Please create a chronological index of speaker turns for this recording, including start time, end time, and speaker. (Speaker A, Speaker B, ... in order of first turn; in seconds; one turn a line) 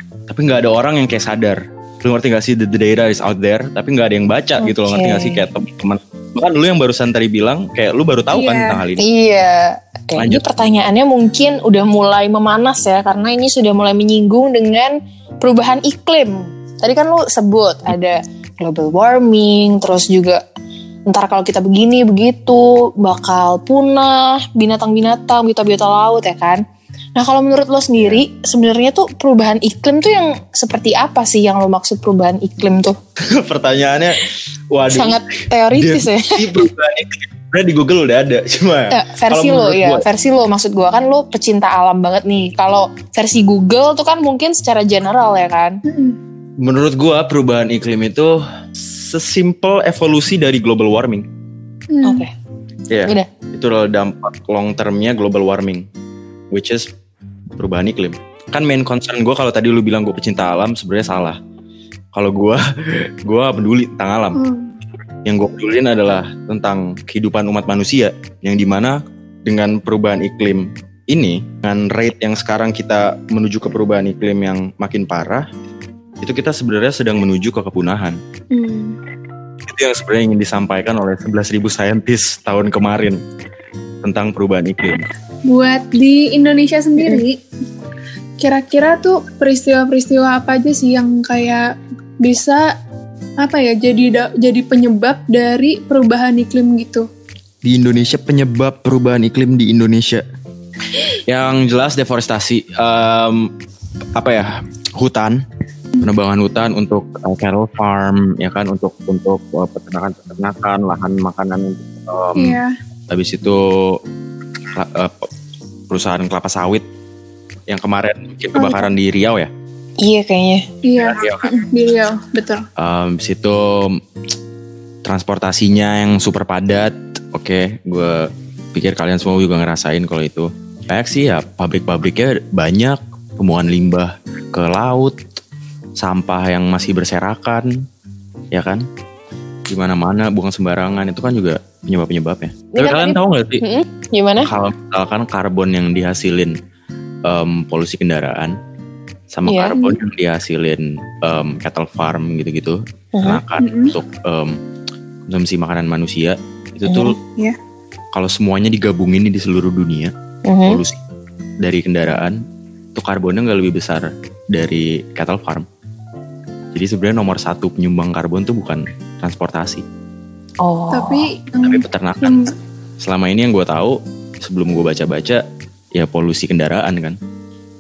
Speaker A: 0.3-9.1
Speaker B: 4.6-5.5
Speaker C: 8.3-8.8
Speaker B: 9.0-20.4
Speaker A: 10.2-10.4
Speaker B: 21.1-26.6
Speaker B: 27.2-33.0
Speaker A: 28.0-28.2
Speaker A: 33.2-40.0
Speaker B: 34.9-36.7
Speaker B: 38.9-45.8
Speaker C: 45.9-46.2
Speaker A: 46.6-51.3
Speaker C: 51.9-52.3
Speaker B: 52.0-52.3
Speaker A: 52.9-55.9
Speaker A: 56.5-56.9
Speaker A: 57.6-61.4
Speaker A: 62.1-64.4
Speaker C: 64.3-64.7
Speaker A: 65.2-75.5
Speaker A: 76.2-78.2
Speaker C: 78.5-79.0
Speaker A: 79.7-83.2
Speaker A: 84.0-85.1
Speaker C: 85.5-87.4
Speaker C: 88.4-91.7
Speaker C: 92.2-92.7
Speaker C: 93.4-97.1
Speaker A: 97.6-100.2
Speaker A: 101.3-103.5
Speaker A: 104.2-105.4
Speaker A: 106.0-114.0
Speaker C: 112.3-112.8
Speaker A: 114.7-115.3
Speaker A: 115.9-116.8
Speaker A: 117.7-119.5
Speaker C: 118.5-118.9
Speaker B: 120.0-120.7
Speaker C: 120.8-122.7
Speaker A: 121.0-121.5
Speaker A: 122.8-124.0
Speaker A: 125.0-135.2
Speaker A: 136.0-137.8
Speaker A: 138.5-138.8
Speaker A: 139.7-143.6
Speaker B: 142.7-144.5
Speaker A: 144.5-146.6
Speaker A: 147.3-148.6
Speaker A: 149.3-154.6
Speaker B: 149.5-149.8
Speaker B: 153.2-153.4
Speaker C: 153.6-153.9
Speaker A: 155.3-157.2
Speaker B: 156.9-157.2
Speaker A: 158.1-160.1
Speaker B: 160.5-160.8
Speaker A: 160.7-161.0
Speaker A: 161.6-162.4
Speaker A: 162.9-165.7
Speaker A: 166.7-169.8
Speaker B: 170.6-171.3
Speaker C: 170.9-172.5
Speaker A: 171.6-172.4
Speaker A: 173.0-175.4
Speaker A: 175.9-177.2